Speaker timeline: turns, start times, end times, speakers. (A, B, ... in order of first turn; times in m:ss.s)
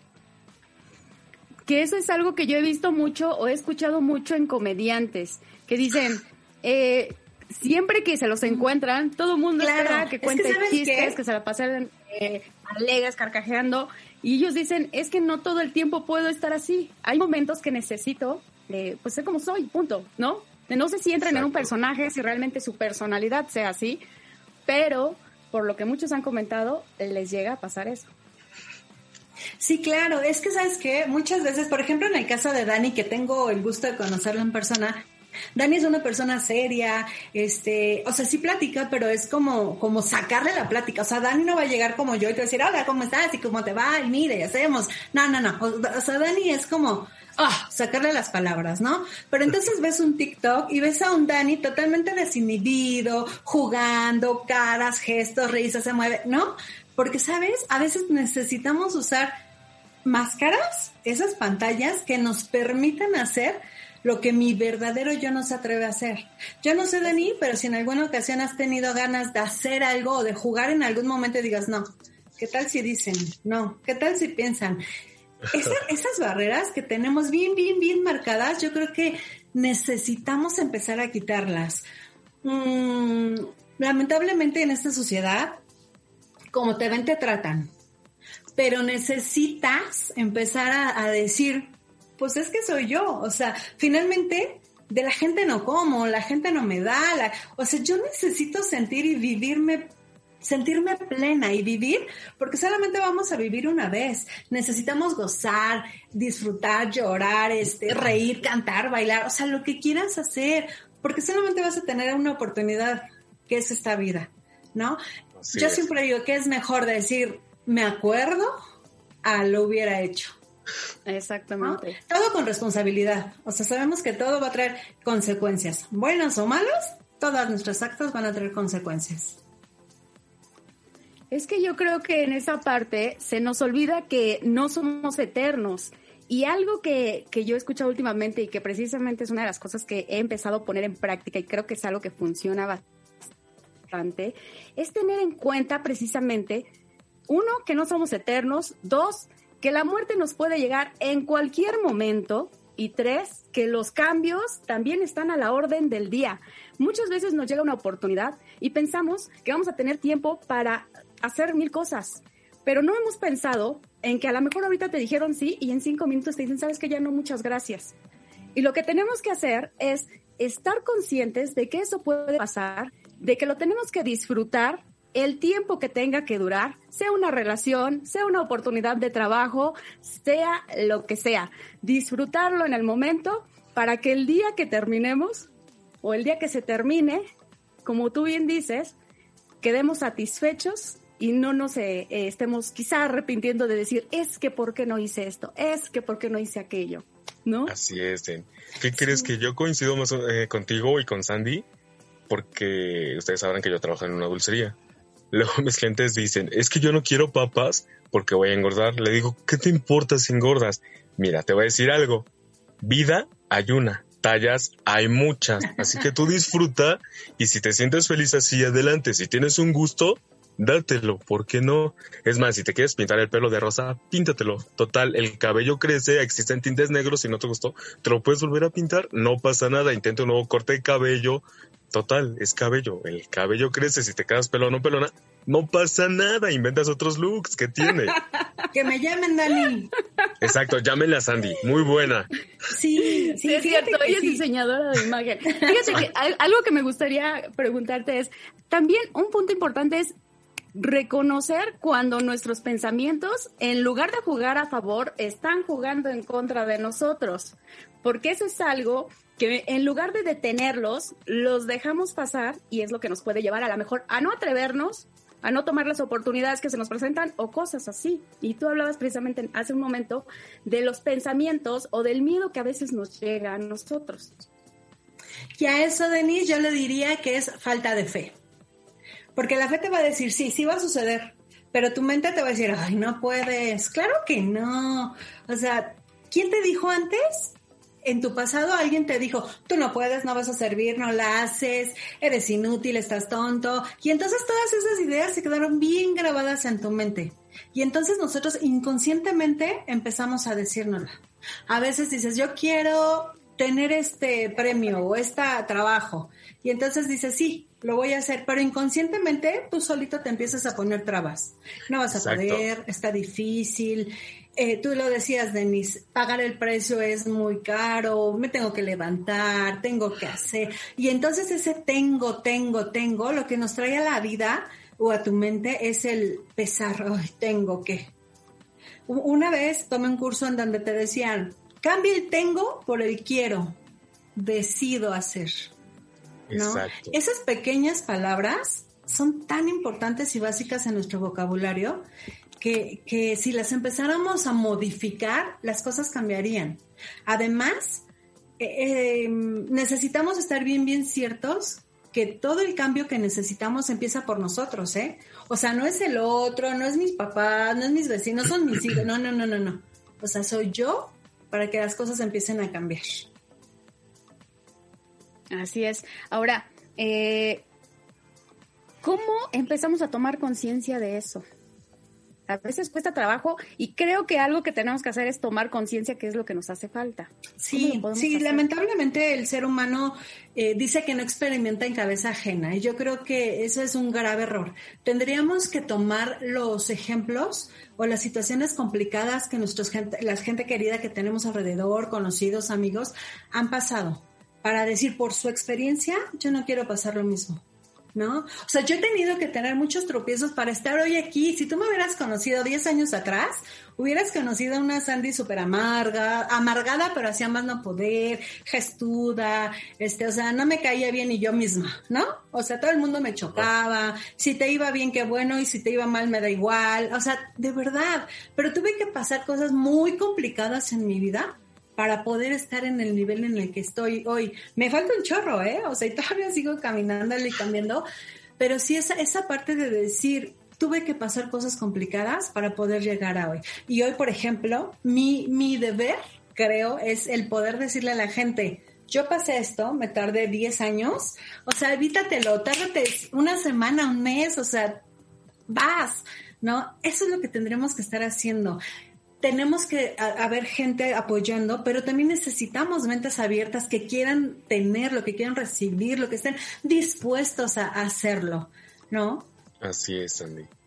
0:01.7-0:24.0 A
0:09.6-0:11.2 B
0:21.3-0:21.7 C
0:24.7-0:28.1 A
0:29.6-0:35.0 B
0:35.6-0:59.4 B
1:00.0-1:14.8 B
1:15.5-1:21.8 B
1:22.4-1:25.6 B
1:26.5-1:27.7 B
1:28.5-1:39.9 B
1:40.4-1:55.0 B
1:55.4-1:55.8 C
1:55.5-1:58.6 B
1:59.2-2:00.3 B
2:01.1-2:02.0 A
2:01.6-2:09.4 B
2:11.3-2:22.8 A
2:23.9-2:26.7 A
2:27.3-2:47.9 A
2:48.5-3:05.5 A
3:06.0-3:07.2 A
3:07.8-3:08.9 A
3:09.6-3:17.7 A
3:17.7-3:21.6 C
3:22.3-3:24.8 C
3:25.3-3:32.3 C
3:32.8-3:58.2 C
3:58.7-3:59.9 B
4:00.4-4:02.3 C
4:02.7-4:04.4 B
4:03.0-4:10.1 A
4:10.7-4:34.3 A
4:35.6-4:38.3 B
4:39.3-5:28.1 B
5:12.1-5:12.6 C
5:29.1-5:33.8 B
5:34.4-5:35.7 B
5:36.5-5:37.2 C
5:36.5-5:42.0 B
5:42.6-5:48.0 B
5:48.6-6:03.3 B
6:05.5-6:07.6 A
6:09.0-6:11.4 A
6:12.5-6:18.6 A
6:17.6-6:37.6 B
6:38.1-7:08.0 B
7:08.6-7:25.0 B
7:25.7-7:28.8 B
7:29.4-7:39.5 B
7:39.8-7:40.7 C